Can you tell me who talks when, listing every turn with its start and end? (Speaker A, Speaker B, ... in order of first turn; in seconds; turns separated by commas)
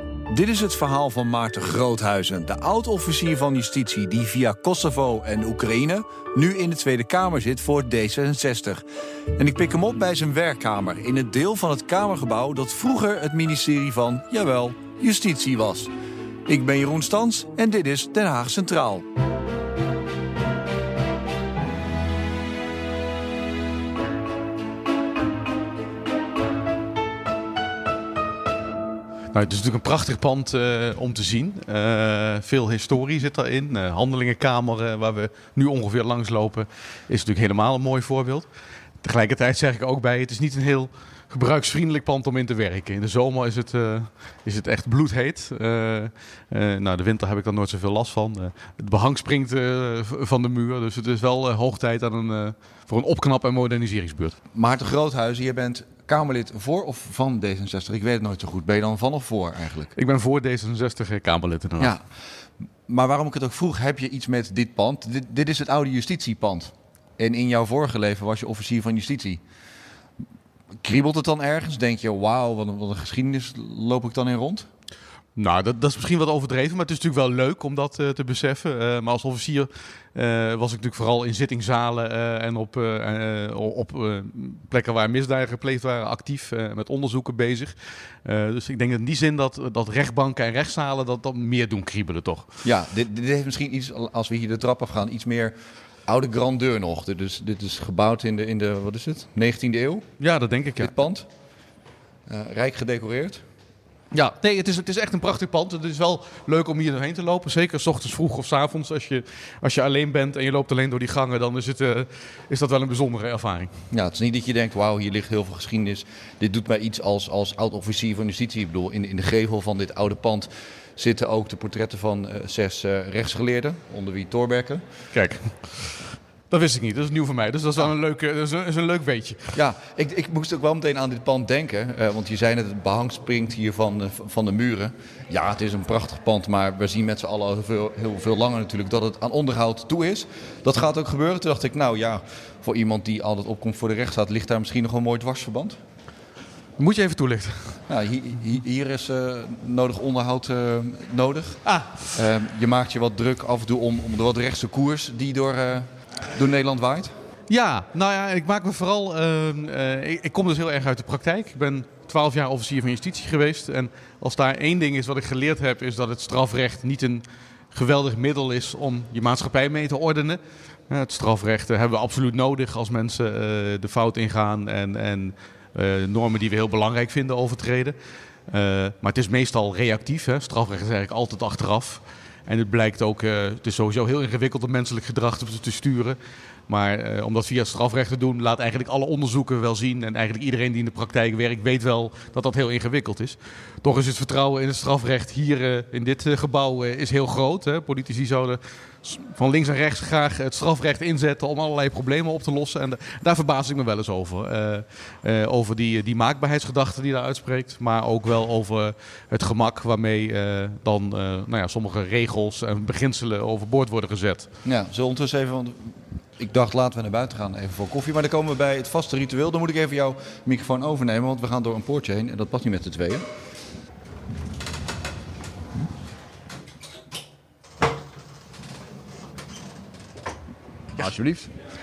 Speaker A: 0.3-8.8, Speaker A: 9.3-15.9, Speaker A: 16.5-19.1, Speaker B: 29.3-38.5, Speaker B: 39.0-54.4, Speaker A: 54.5-59.9, Speaker B: 59.9-61.9, Speaker A: 62.9-69.4, Speaker A: 70.8-74.7, Speaker B: 75.3-92.5, Speaker A: 92.6-95.5, Speaker A: 96.0-100.0, Speaker B: 100.2-100.9, Speaker A: 100.8-101.3, Speaker A: 102.3-103.4, Speaker B: 104.1-113.7, Speaker A: 113.9-124.8, Speaker B: 125.1-126.0, Speaker B: 126.5-129.5, Speaker A: 129.5-145.8, Speaker B: 146.8-147.8, Speaker A: 147.9-151.6, Speaker B: 151.6-152.1, Speaker A: 152.1-157.1, Speaker B: 157.5-177.9, Speaker B: 178.5-214.5, Speaker A: 214.6-223.3, Speaker A: 230.9-231.5